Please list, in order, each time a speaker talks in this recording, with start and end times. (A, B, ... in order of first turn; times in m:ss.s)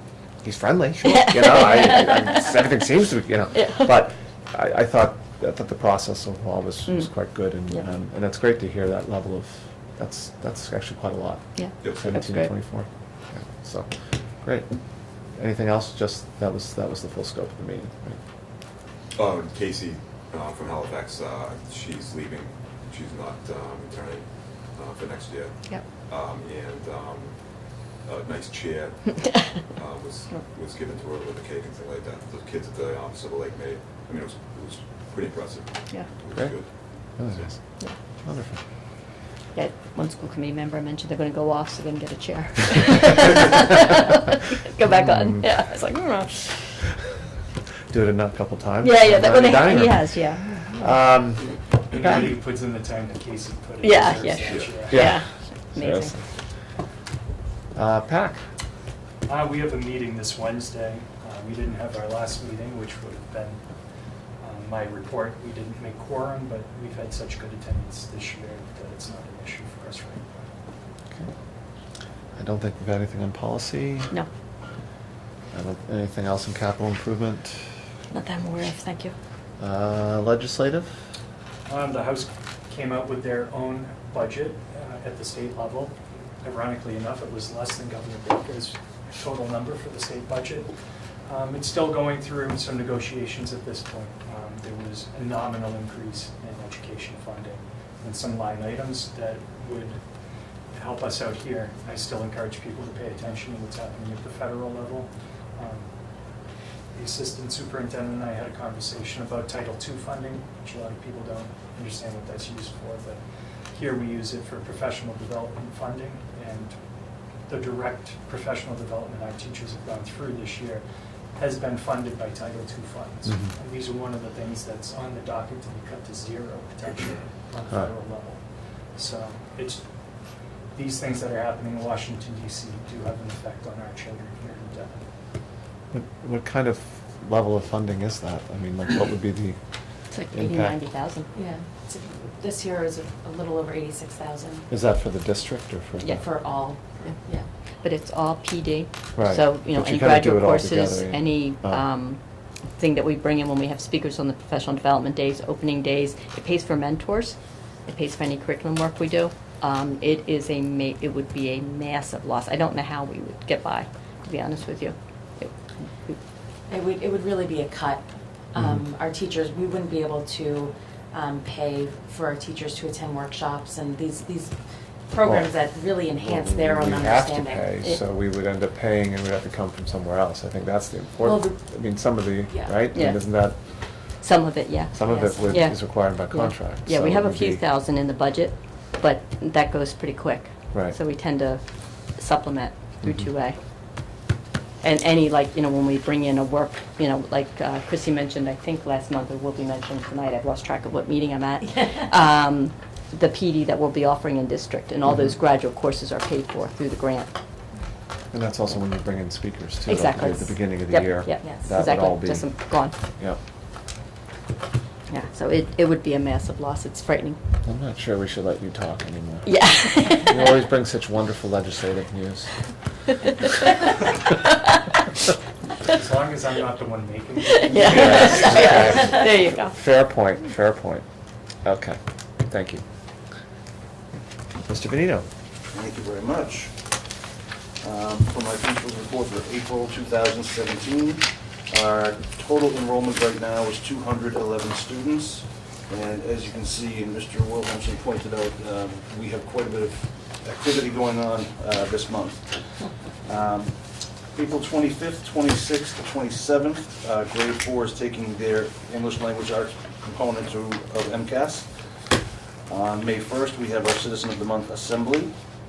0:00.4-0:14.7 A
0:01.1-0:01.9 B
0:03.5-0:03.9 B
0:06.9-0:07.1 B
0:11.6-0:12.5 B
0:15.3-0:18.2 A
0:19.1-0:25.5 C
0:26.1-0:27.4 C
0:28.0-0:36.7 C
0:37.2-0:37.6 A
0:37.2-0:37.5 C
0:38.2-0:38.6 A
0:39.5-0:46.6 B
0:45.0-0:45.4 A
0:47.9-0:52.3 A
0:48.8-0:51.0 B
0:51.9-0:55.1 D
0:53.8-0:56.2 B
0:54.4-0:54.7 C
0:54.9-0:56.2 A
0:57.7-0:58.4 A
0:59.2-1:03.6 D
1:04.4-1:10.5 D
1:12.4-1:14.1 A
1:15.5-1:17.6 A
1:18.1-1:19.1 B
1:19.6-1:21.0 A
1:21.7-1:30.7 D
1:31.3-1:40.0 D
1:40.7-1:45.9 D
1:46.9-1:53.2 D
1:53.7-1:56.8 D
1:57.5-2:00.8 D
2:01.4-2:08.4 D
2:09.0-2:09.8 D
2:10.7-2:15.0 D
2:15.9-2:19.6 A
2:20.1-2:21.3 B
2:20.3-2:20.8 A
2:21.3-2:24.7 E
2:24.7-2:26.2 A
2:26.0-2:26.4 B
2:26.2-2:27.5 E
2:27.8-2:32.2 B
2:29.2-2:31.8 A
2:32.8-2:37.4 B
2:37.9-2:46.2 B
2:46.7-2:54.6 E
2:55.1-2:57.7 E
2:55.2-2:55.5 A
2:56.2-3:03.6 A
3:01.2-3:01.6 E
3:02.5-3:02.8 E
3:02.9-3:03.2 B
3:04.2-3:13.6 B
3:04.9-3:07.6 A
3:05.0-3:05.5 E
3:13.0-3:13.3 A
3:14.8-3:27.3 B
3:21.6-3:22.1 E
3:28.3-3:32.6 A
3:29.8-3:32.9 B
3:31.4-3:31.7 E
3:35.1-3:37.4 B
3:37.6-3:42.6 A
3:39.4-3:40.6 B
3:45.9-3:48.9 D
3:47.4-3:49.8 B
3:47.7-3:51.0 A
3:51.6-3:52.8 A
3:54.6-3:55.3 A
3:55.7-3:56.9 F
3:57.8-4:13.8 F
4:14.3-4:22.1 F
4:22.7-4:25.3 F